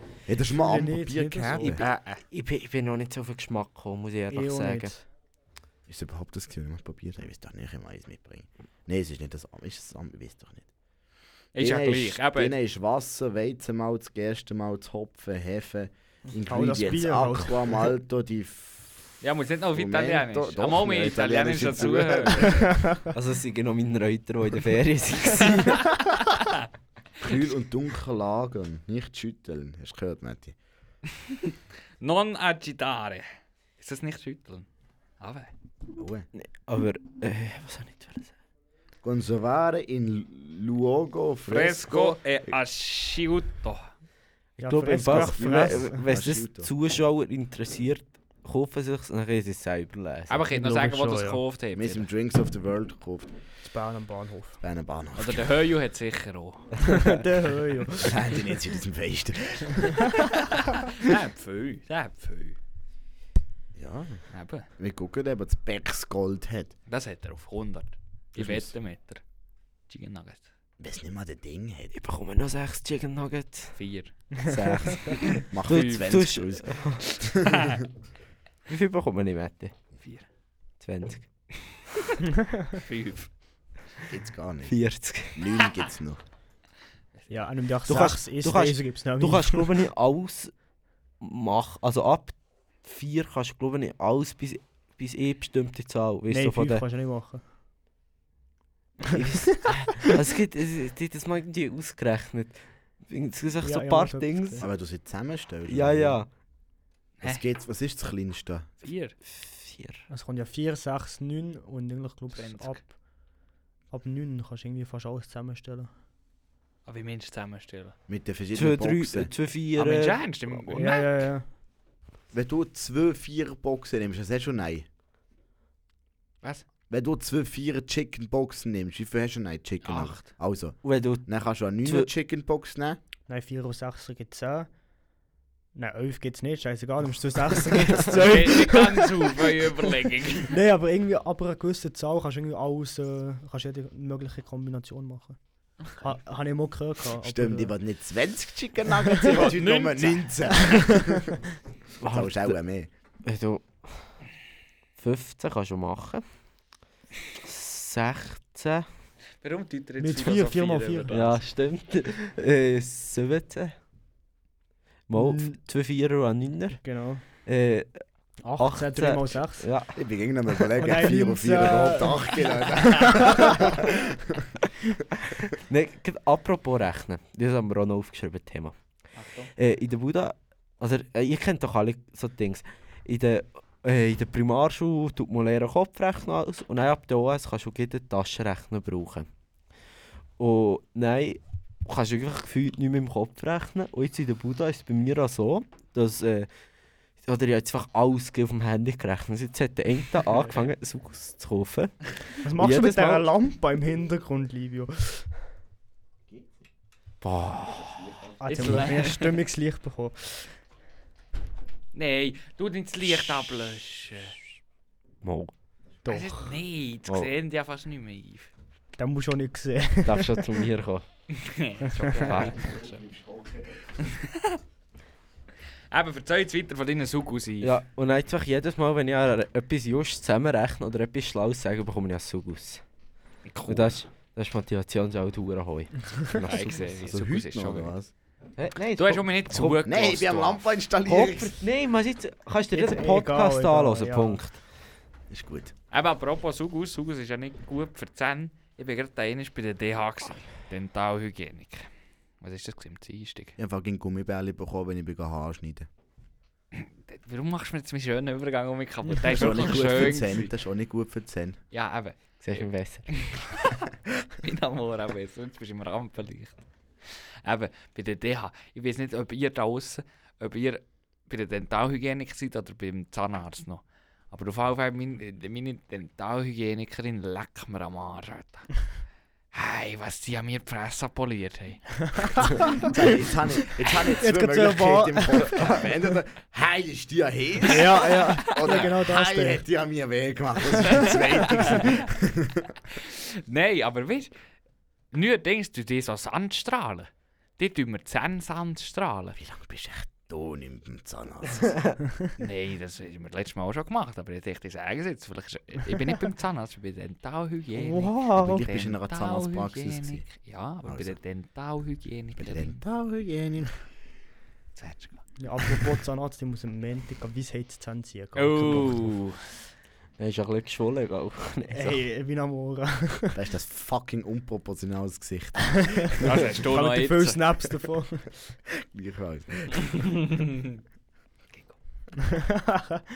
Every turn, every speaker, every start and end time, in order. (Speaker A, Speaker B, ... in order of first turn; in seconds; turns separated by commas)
Speaker A: 0.3-1.9, Speaker B: 0.6-1.6, Speaker C: 1.6-2.2, Speaker D: 1.6-4.9, Speaker B: 4.3-5.1, Speaker A: 5.9-10.7, Speaker C: 11.6-12.6, Speaker A: 11.6-19.1, Speaker B: 16.5-17.8, Speaker C: 19.2-22.5, Speaker A: 19.7-22.8, Speaker B: 22.7-23.0, Speaker D: 23.1-26.0, Speaker C: 26.2-26.5, Speaker A: 27.2-30.6, Speaker C: 31.3-33.3, Speaker C: 33.8-34.7, Speaker C: 35.2-35.5, Speaker A: 35.9-36.3, Speaker D: 36.4-38.3, Speaker A: 39.0-42.2, Speaker C: 41.5-43.9, Speaker D: 44.6-50.5, Speaker B: 44.6-46.0, Speaker A: 45.1-46.7, Speaker C: 50.3-52.1, Speaker B: 50.5-51.4, Speaker A: 51.8-53.3, Speaker B: 53.6-54.6, Speaker A: 54.6-55.5, Speaker C: 55.2-56.9, Speaker D: 56.8-57.1, Speaker B: 56.8-58.4, Speaker A: 58.0-60.2, Speaker C: 60.3-62.6, Speaker A: 63.8-64.2, Speaker C: 64.3-64.7, Speaker A: 64.8-66.7, Speaker C: 66.9-69.2, Speaker A: 68.4-68.7, Speaker C: 69.9-70.5, Speaker A: 70.8-71.9, Speaker D: 71.9-73.8, Speaker C: 73.8-74.3, Speaker D: 74.4-77.1, Speaker C: 75.1-76.2, Speaker A: 75.5-77.8, Speaker C: 77.2-77.8, Speaker D: 78.7-79.7, Speaker D: 80.8-81.3, Speaker C: 82.7-83.3, Speaker A: 84.1-84.8, Speaker D: 84.7-85.4, Speaker A: 85.3-86.2, Speaker B: 87.3-89.7, Speaker D: 87.9-90.5, Speaker D: 91.2-96.8, Speaker B: 96.3-97.4, Speaker D: 99.1-104.7, Speaker B: 103.6-104.7, Speaker A: 104.6-106.2, Speaker D: 105.7-106.3, Speaker A: 107.2-108.7, Speaker C: 108.8-109.2, Speaker D: 109.3-110.0, Speaker B: 110.1-112.9, Speaker C: 112.3-112.8, Speaker B: 113.9-115.9, Speaker C: 116.9-118.0, Speaker A: 118.1-119.3, Speaker D: 118.5-120.9, Speaker C: 119.8-121.2, Speaker B: 120.8-121.5, Speaker A: 122.3-124.9, Speaker A: 126.9-133.0, Speaker C: 129.8-130.3, Speaker D: 130.8-131.3, Speaker D: 131.8-132.1, Speaker B: 133.3-134.7, Speaker B: 135.8-139.6, Speaker D: 137.9-138.3, Speaker C: 138.1-140.5, Speaker B: 140.5-147.7, Speaker A: 147.2-151.4, Speaker C: 149.2-150.6, Speaker B: 150.7-151.2, Speaker D: 152.0-152.6, Speaker A: 152.1-152.9, Speaker D: 153.2-154.2, Speaker D: 155.0-156.2, Speaker D: 157.4-158.9, Speaker C: 159.4-161.4, Speaker B: 160.0-161.2, Speaker D: 161.1-163.8, Speaker D: 165.1-166.9, Speaker B: 165.2-165.6, Speaker B: 166.8-167.2, Speaker D: 167.4-168.0, Speaker B: 168.4-169.7, Speaker D: 168.6-170.0, Speaker A: 169.9-174.5, Speaker B: 170.8-173.7, Speaker D: 175.3-178.8, Speaker C: 179.2-179.5, Speaker D: 179.6-189.3, Speaker D: 190.4-196.5, Speaker D: 197.2-203.3, Speaker B: 202.4-205.3, Speaker D: 207.2-208.8, Speaker B: 208.4-210.5, Speaker C: 208.5-209.3, Speaker C: 211.9-214.4, Speaker D: 215.2-215.5, Speaker B: 216.1-216.6, Speaker C: 216.1-218.5, Speaker B: 219.0-220.6, Speaker D: 220.1-221.1, Speaker C: 221.3-223.0, Speaker B: 221.9-222.2, Speaker D: 222.2-222.6, Speaker A: 222.5-224.0, Speaker C: 224.0-224.6, Speaker C: 225.9-227.8, Speaker D: 227.6-232.8, Speaker C: 233.5-234.0, Speaker D: 233.7-236.9, Speaker C: 236.4-237.9, Speaker A: 237.1-238.1, Speaker D: 238.6-239.8, Speaker C: 239.0-240.6, Speaker A: 239.8-241.6, Speaker D: 241.1-244.6, Speaker B: 242.7-244.4, Speaker A: 245.3-245.7, Speaker C: 245.9-251.9, Speaker C: 252.4-253.6, Speaker A: 253.6-255.9, Speaker C: 256.7-260.5, Speaker A: 259.2-261.6, Speaker C: 261.7-263.9, Speaker D: 262.4-263.1, Speaker C: 264.4-278.8, Speaker C: 279.5-282.6, Speaker B: 282.2-282.9, Speaker A: 282.5-292.8, Speaker B: 284.1-285.7, Speaker B: 287.6-289.6, Speaker C: 288.5-288.9, Speaker C: 290.8-292.1, Speaker C: 292.9-294.3, Speaker C: 295.1-299.4, Speaker A: 299.4-301.8, Speaker D: 301.6-301.9, Speaker C: 302.4-312.8, Speaker B: 307.8-308.6, Speaker A: 308.4-310.2, Speaker A: 310.9-311.2, Speaker A: 312.4-313.8, Speaker C: 314.8-315.3, Speaker B: 315.4-319.2, Speaker C: 318.4-319.4, Speaker D: 320.2-322.1, Speaker B: 321.7-323.4, Speaker A: 323.4-326.4, Speaker B: 325.9-328.3, Speaker C: 326.2-327.4, Speaker A: 328.8-330.1, Speaker C: 329.8-330.8, Speaker B: 332.2-333.0